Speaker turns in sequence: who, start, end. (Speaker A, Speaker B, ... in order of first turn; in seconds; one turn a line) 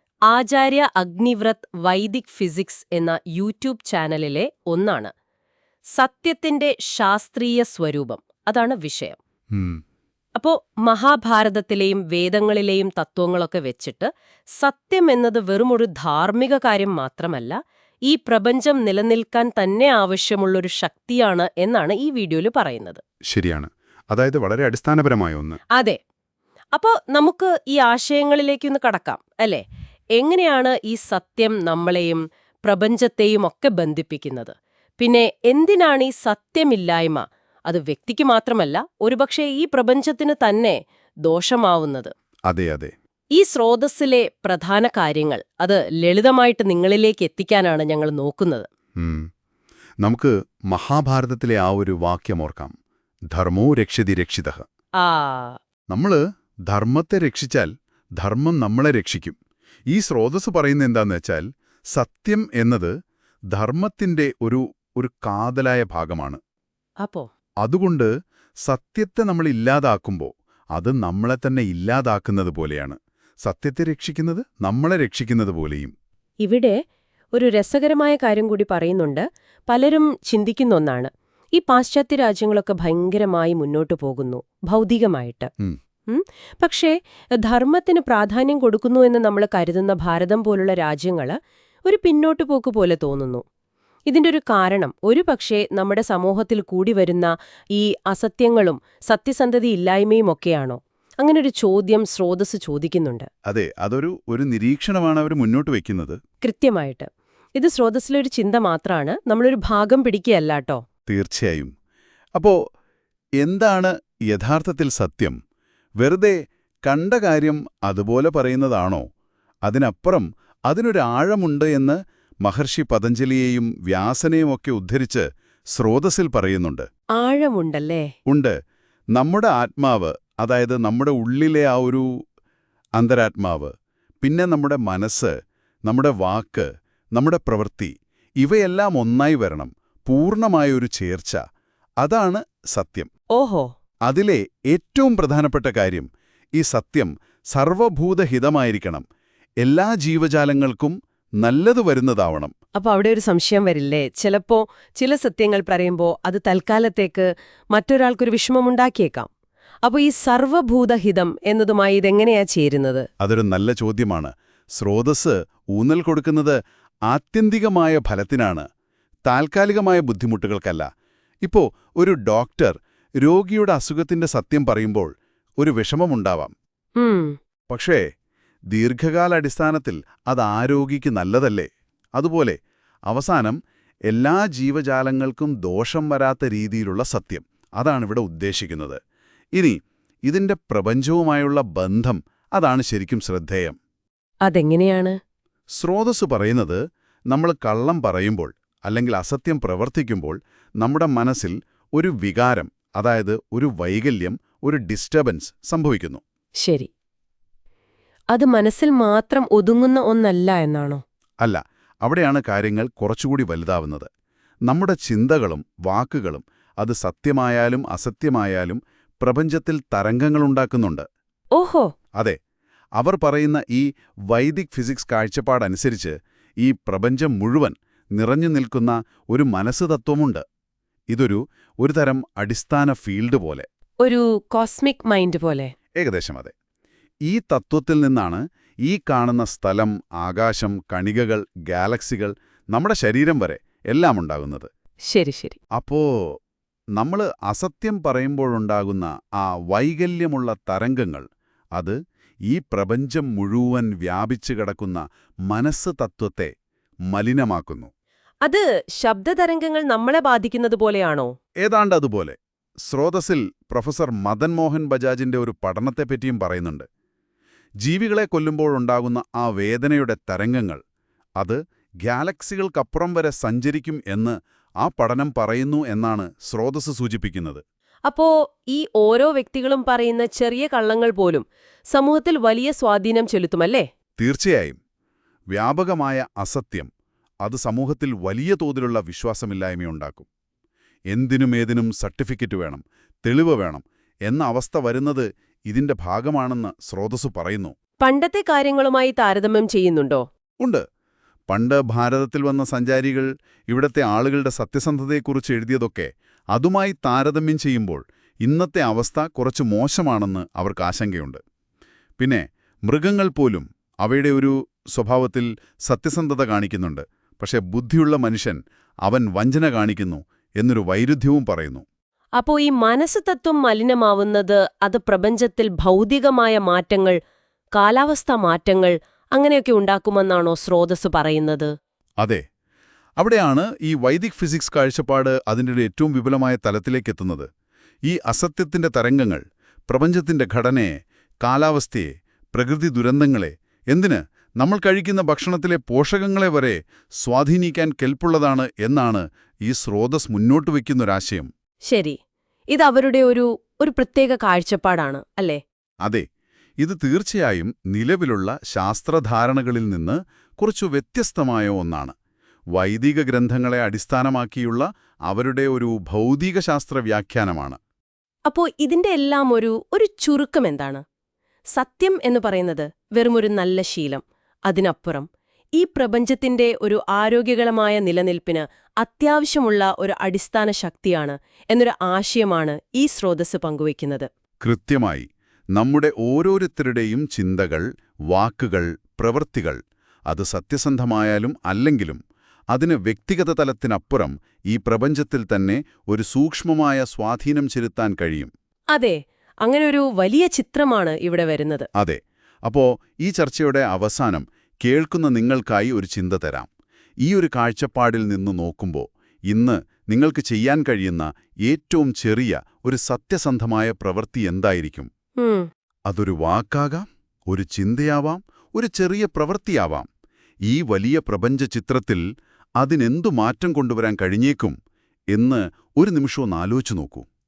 Speaker A: 0.3-5.1
Speaker A: 5.9-9.2
Speaker A: 10.3-23.0
Speaker B: 23.3-25.6
Speaker A: 26.7-29.6
Speaker A: 30.2-42.1
Speaker B: 42.5-42.9
Speaker A: 43.4-48.6
Speaker B: 49.0-49.3
Speaker B: 50.0-52.8
Speaker B: 53.3-54.6
Speaker A: 55.0-55.6
Speaker B: 55.9-59.4
Speaker B: 59.9-62.9
Speaker B: 63.5-66.4
Speaker A: 67.0-67.3
Speaker B: 67.6-68.1
Speaker B: 68.7-75.9
Speaker A: 76.4-76.8
Speaker A: 77.3-85.5
Speaker A: 86.1-93.4
Speaker A: 94.1-103.3
Speaker B: 103.5-106.2
Speaker A: 106.4-110.8
Speaker B: 111.1-111.7
Speaker B: 113.4-115.3
Speaker B: 116.0-119.0
Speaker B: 119.6-126.8
Speaker A: 127.2-128.1
Speaker B: 128.2-128.5
Speaker B: 129.1-132.1
Speaker B: 133.0-135.3
Speaker B: 135.8-141.4
Speaker B: 142.0-143.1
Speaker A: 143.3-143.7
Speaker B: 144.1-149.0
Speaker B: 149.6-152.5
Speaker A: 152.8-159.3
Speaker A: 159.8-163.1
Speaker B: 163.2-168.7
Speaker B: 169.3-170.9
Speaker B: 171.4-176.5
Speaker A: 177.0-177.3
Speaker B: 177.7-178.0
Speaker B: 178.7-182.6
Speaker B: 183.1-183.6
Speaker B: 184.1-189.0
Speaker B: 189.6-193.8
Speaker A: 194.4-195.2
Speaker B: 195.8-196.8
Speaker B: 197.3-206.2
Speaker A: 206.6-206.9
Speaker A: 208.3-211.0
Speaker B: 211.4-214.1
Speaker B: 214.7-221.0
Speaker A: 221.6-221.9
Speaker B: 223.0-230.4
Speaker B: 231.1-233.7
Speaker A: 234.0-235.7
Speaker B: 236.0-236.5
Speaker B: 237.3-244.7
Speaker A: 245.1-245.6
Speaker B: 245.8-246.3
Speaker B: 247.0-251.2
Speaker B: 252.5-256.5
Speaker B: 257.1-257.9
Speaker A: 258.4-261.3
Speaker B: 261.6-262.4
Speaker B: 262.9-266.9
Speaker B: 267.8-270.8
Speaker B: 271.4-277.6
Speaker A: 278.1-283.8
Speaker B: 284.2-284.8
Speaker B: 285.5-286.9
Speaker B: 287.4-290.3
Speaker B: 291.1-297.7
Speaker A: 298.0-300.2
Speaker B: 301.5-311.4
Speaker B: 312.2-321.8
Speaker A: 322.4-327.1
Speaker A: 327.8-331.7
Speaker B: 333.2-337.4
Speaker B: 338.1-340.9
Speaker B: 341.4-351.5
Speaker A: 351.9-352.2
Speaker A: 352.7-355.6
Speaker B: 356.8-362.1
Speaker B: 362.7-367.8
Speaker A: 368.5-371.0
Speaker A: 371.8-384.3
Speaker B: 384.6-389.8
Speaker B: 390.3-392.2
Speaker B: 392.7-398.5
Speaker A: 398.9-401.9
Speaker B: 401.9-406.7
Speaker B: 407.2-415.1
Speaker A: 415.4-415.7
Speaker B: 416.1-420.1
Speaker B: 420.7-422.2
Speaker B: 422.8-424.8
Speaker B: 425.3-427.2